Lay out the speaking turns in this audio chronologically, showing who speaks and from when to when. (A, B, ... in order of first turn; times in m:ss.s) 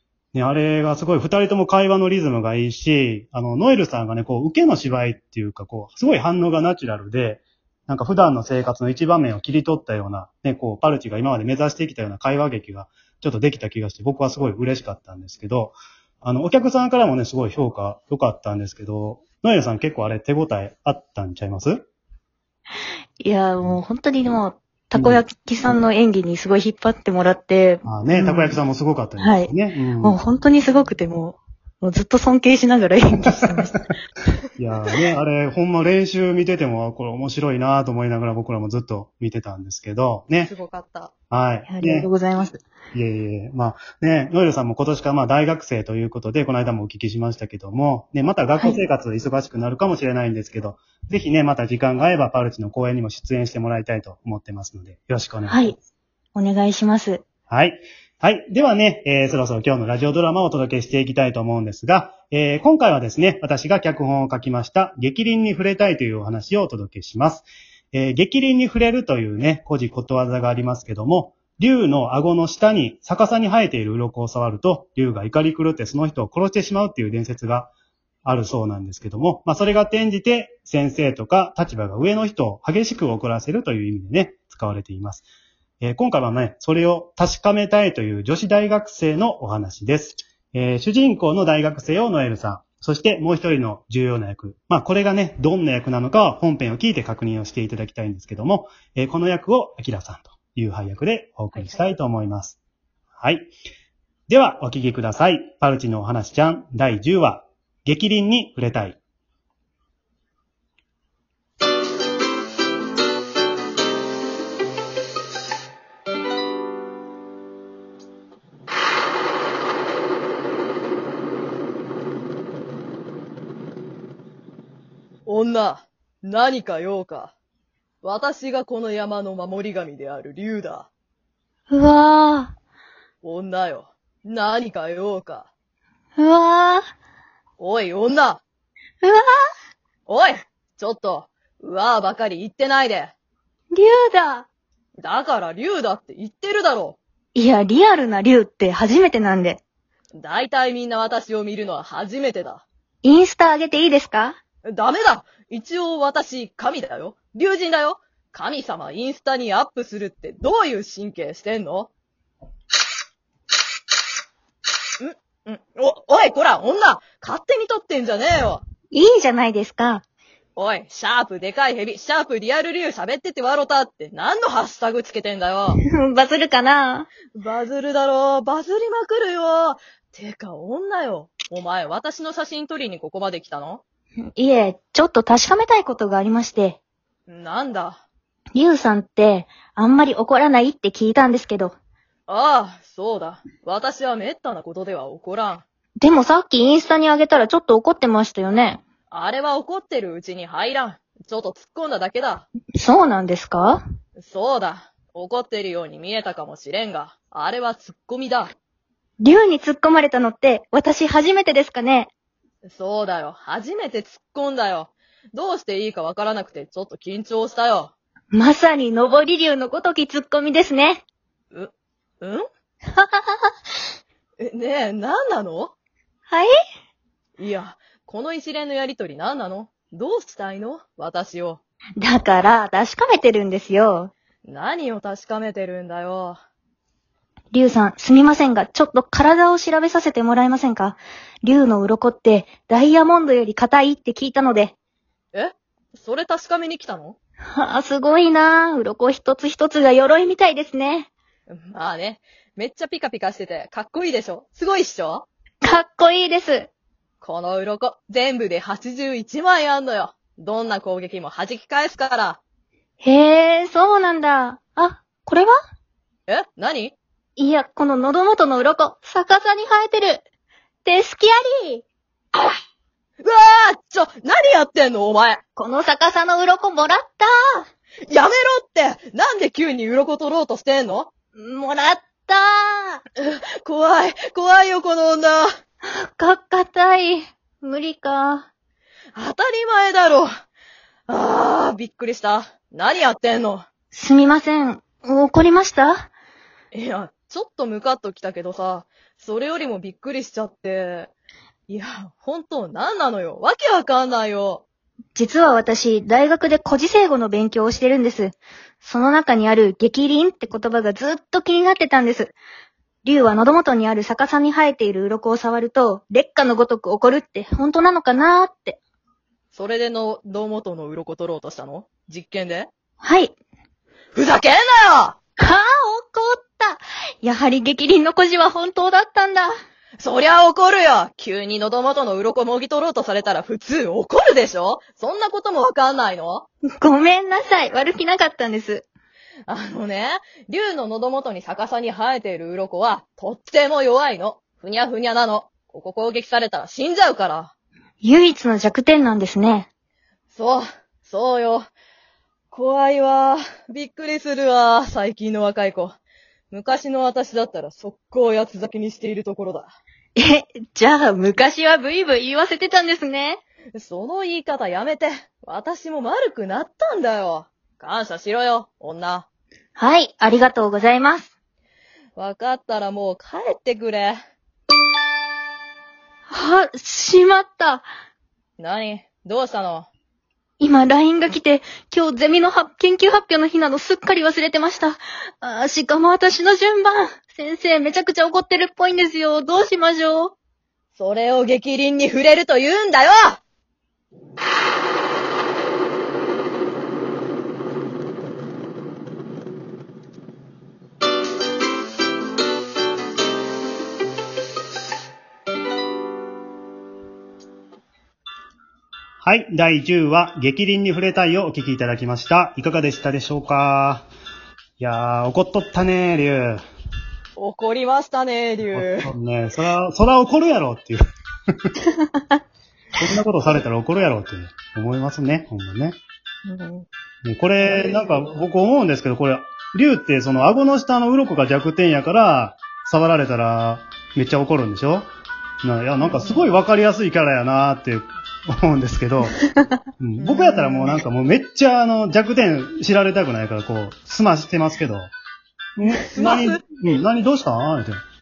0:00.3-0:21.8 A
0:23.2-0:28.6 B
0:24.9-0:25.2 A
0:27.8-0:30.2 A
0:29.2-0:33.8 B
0:34.6-0:40.5 A
0:40.4-0:41.1 C
0:41.3-0:42.1 A
0:41.7-0:42.6 B
0:42.9-0:55.8 A
0:55.5-0:55.8 B
0:56.4-0:57.2 B
0:57.5-1:17.7 A
1:18.2-1:25.2 A
1:25.8-1:42.6 A
1:41.5-1:41.8 C
1:43.2-1:43.5 A
1:44.3-1:49.0 A
2:05.2-2:07.3 C
2:08.0-2:10.9 C
2:11.7-2:12.5 B
2:13.2-2:15.5 C
2:16.2-2:16.8 B
2:17.6-2:18.4 C
2:19.0-2:19.3 B
2:20.1-2:23.1 C
2:23.7-2:24.5 B
2:25.0-2:27.0 C
2:27.3-2:29.6 B
2:30.1-2:32.6 C
2:33.0-2:34.4 B
2:34.6-2:41.9 C
2:45.0-2:48.6 C
2:48.9-2:50.0 B
2:50.6-2:55.8 C
2:55.7-2:57.1 B
2:57.3-3:03.8 C
3:04.4-3:06.8 B
3:07.3-3:08.0 C
3:08.5-3:11.7 B
3:12.3-3:15.6 C
3:16.0-3:18.8 B
3:19.1-3:22.5 C
3:22.7-3:23.8 B
3:24.2-3:28.5 C
3:29.2-3:32.1 B
3:32.6-3:37.9 C
3:38.3-3:41.0 B
3:41.5-3:42.4 C
3:42.9-3:43.4 B
3:44.4-3:45.7 C
3:47.4-3:51.6 C
3:52.0-3:54.1 B
3:54.4-3:56.4 C
3:57.5-4:04.7 B
4:05.3-4:07.2 C
4:07.5-4:11.1 B
4:11.5-4:15.2 C
4:15.6-4:16.7 B
4:17.2-4:22.4 C
4:23.0-4:25.5 B
4:26.3-4:26.9 C
4:27.4-4:30.2 B
4:30.8-4:31.8 B
4:33.2-4:35.4 C
4:35.6-4:37.6 B
4:38.1-4:41.1 C
4:41.4-4:43.0 B
4:43.2-4:45.5 C
4:45.8-4:48.5 B
4:49.2-4:50.3 C
4:51.1-4:53.6 C
4:53.9-4:56.1 B
4:56.7-5:01.1 C
5:01.7-5:04.6 C
5:05.1-5:12.3 B
5:13.0-5:18.8 B
5:19.5-5:22.7 C
5:23.0-5:23.3 B
5:24.1-5:25.2 C
5:25.4-5:29.5 B
5:30.0-5:36.4 C
5:36.8-5:38.8 B
5:39.5-5:47.5 C
5:48.0-5:49.7 B
5:50.3-5:51.7 C
5:52.5-5:56.0 C
5:56.5-5:59.7 C
6:00.2-6:03.4 B
6:03.7-6:09.3 C
6:09.8-6:11.3 B
6:12.2-6:14.2 C
6:16.3-6:17.8 B
6:18.6-6:19.9 C
6:20.6-6:30.3 B
6:31.0-6:33.4 C
6:49.2-6:54.0 A
6:54.8-6:56.6 A
6:57.4-6:59.1 C
6:58.7-7:01.0 A
7:01.9-7:02.2 B
7:03.0-7:06.0 A
7:06.4-7:06.8 B
7:07.2-7:15.1 A
7:07.6-7:08.3 C
7:15.6-7:19.4 A
7:16.0-7:16.4 C
7:20.0-7:25.1 A
7:20.2-7:21.0 C
7:25.8-7:28.0 A
7:26.1-7:26.6 C